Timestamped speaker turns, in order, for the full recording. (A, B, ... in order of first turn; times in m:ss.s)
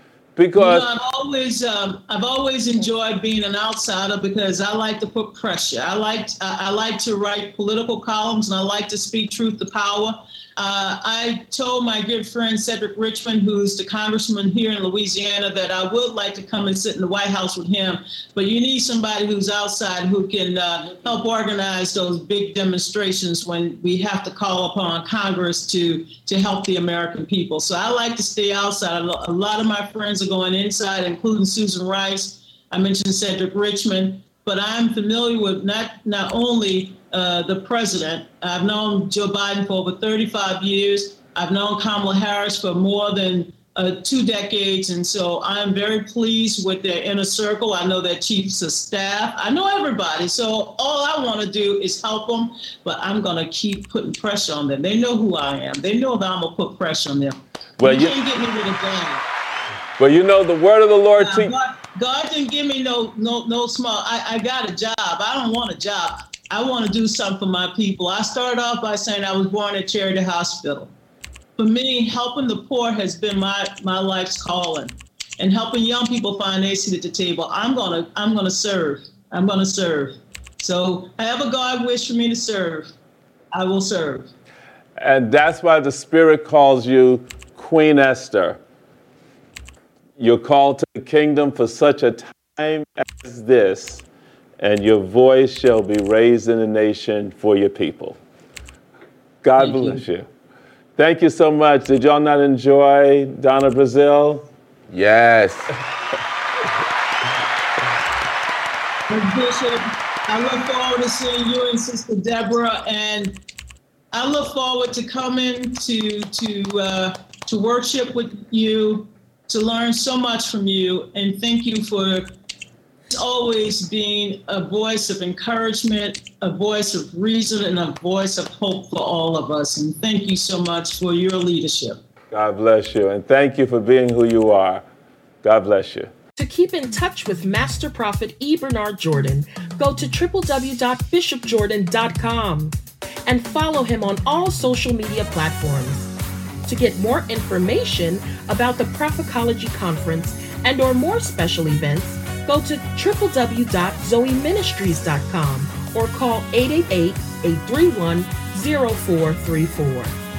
0:00.4-0:00.9 A
0:00.6-0:59.2 B
0:57.8-0:58.2 A
1:00.0-1:01.5 A
1:01.2-1:10.9 B
1:11.6-1:22.9 B
1:23.5-1:24.3 B
1:25.0-1:28.6 A
1:30.2-1:34.0 A
1:34.6-1:38.2 A
1:39.4-1:40.3 A
1:39.6-1:39.8 B
1:41.0-1:45.6 A
1:49.1-1:53.4 B
1:54.1-2:02.3 B
2:03.1-2:12.0 B
2:12.3-2:14.8 A
2:15.4-2:16.1 A
2:16.4-2:26.1 C
2:26.6-2:40.1 C